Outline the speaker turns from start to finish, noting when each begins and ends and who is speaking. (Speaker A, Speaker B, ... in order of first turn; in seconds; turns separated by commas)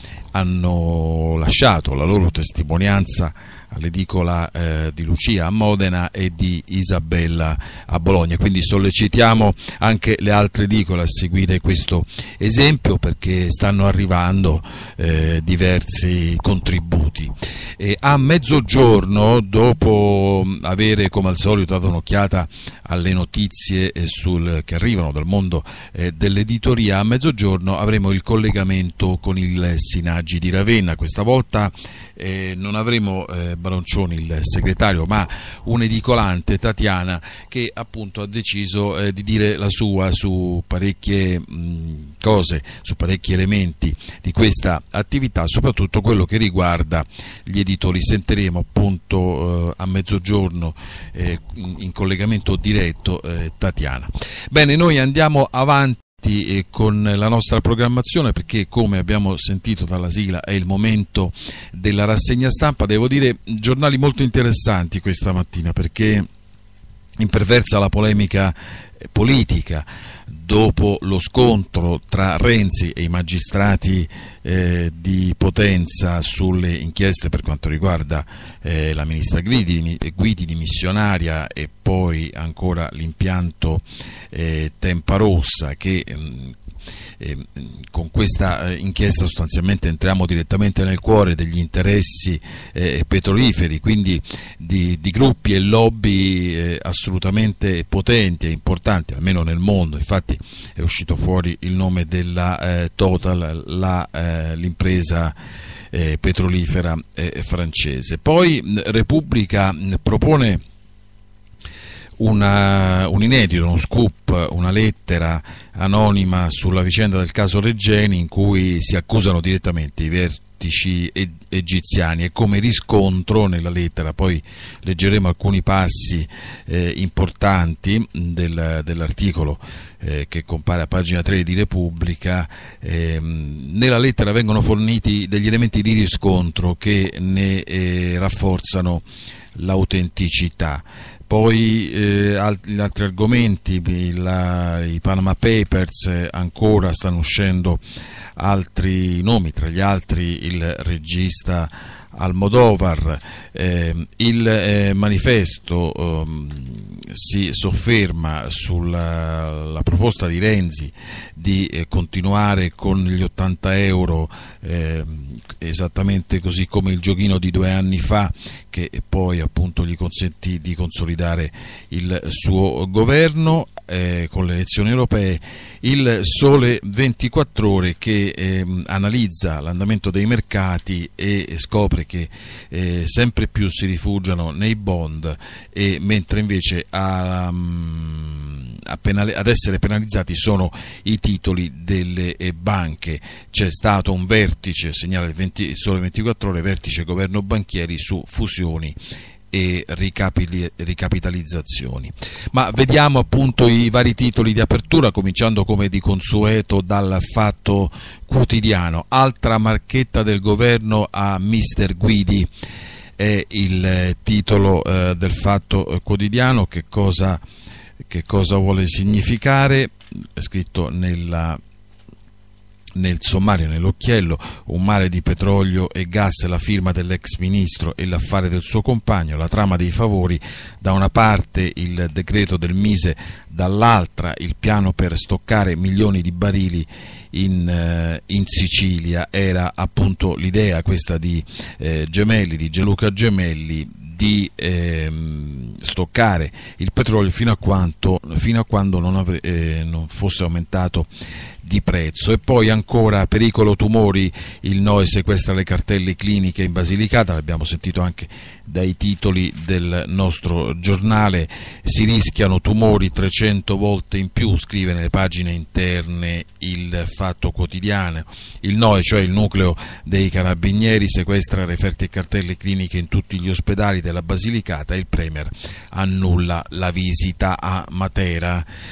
Speaker A: 0.3-66.3, Speaker A: 67.2-86.6, Speaker A: 87.2-105.4, Speaker A: 105.9-110.6, Speaker A: 112.2-147.8, Speaker A: 148.3-199.0, Speaker A: 199.5-212.5, Speaker A: 213.2-217.4, Speaker A: 218.0-221.6, Speaker A: 222.9-251.1, Speaker A: 251.6-278.7